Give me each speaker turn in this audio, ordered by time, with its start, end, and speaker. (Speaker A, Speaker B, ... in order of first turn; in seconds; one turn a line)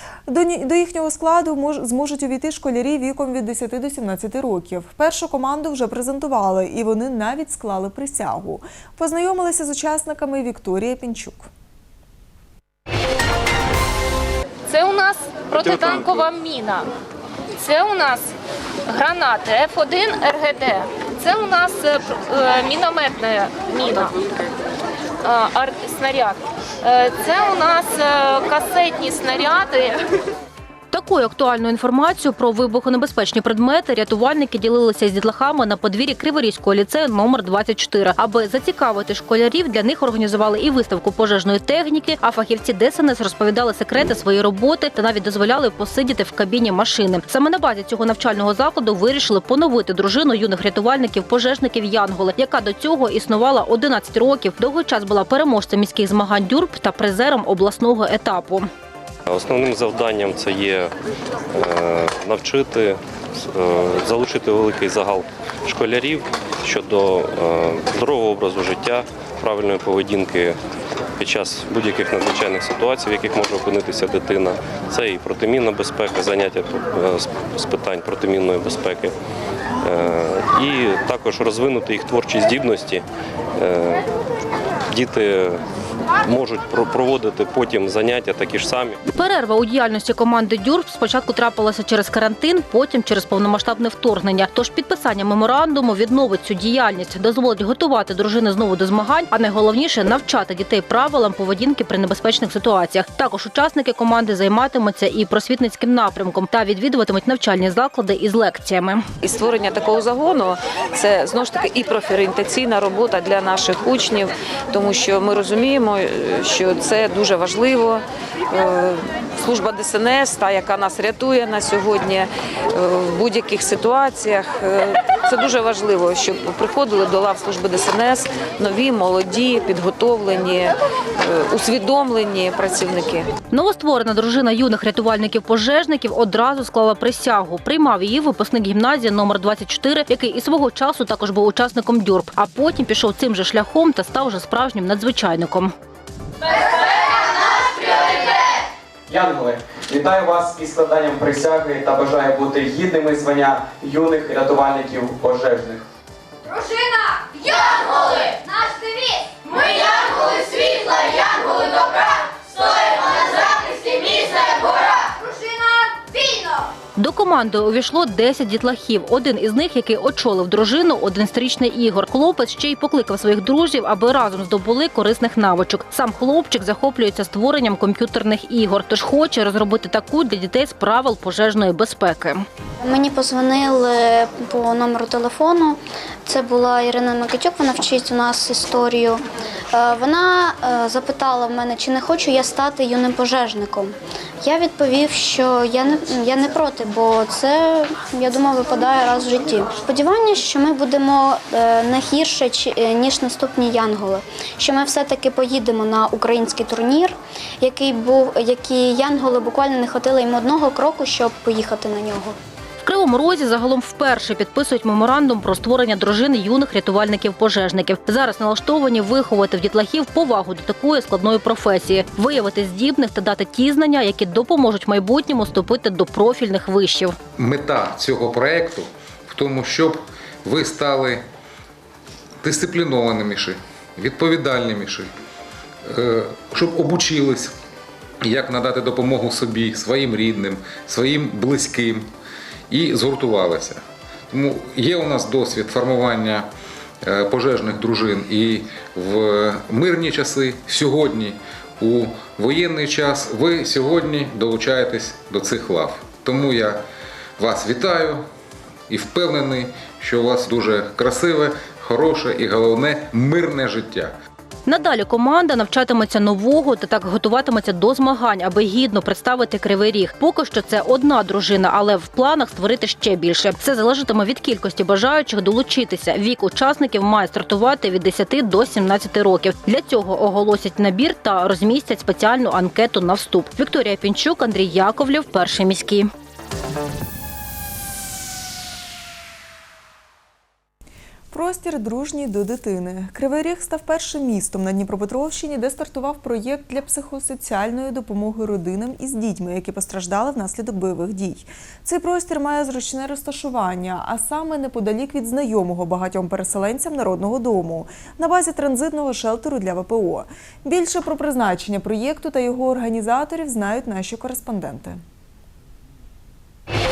Speaker A: 0.3-11.5
Speaker B: 14.7-16.9
Speaker B: 17.6-18.3
Speaker B: 18.9-24.2
Speaker B: 25.2-30.0
Speaker C: 30.9-58.7
Speaker D: 59.3-60.9
Speaker D: 61.5-70.6
Speaker D: 71.2-79.1
Speaker D: 79.8-83.0
Speaker D: 83.6-84.1
Speaker D: 84.9-85.6
Speaker D: 86.2-89.0
Speaker C: 89.1-109.0
Speaker E: 109.2-133.3
Speaker C: 133.5-145.7
Speaker F: 149.1-155.8
Speaker C: 166.9-182.4
Speaker G: 182.8-189.2
Speaker G: 189.7-212.3
Speaker C: 212.8-227.1
Speaker H: 227.4-231.2
Speaker H: 232.4-235.1
Speaker H: 235.8-237.5
Speaker H: 238.2-242.1
Speaker H: 242.7-246.5
Speaker H: 247.0-256.8
Speaker H: 257.4-258.2
Speaker H: 258.9-264.1
Speaker C: 264.7-286.1
Speaker A: 291.3-315.0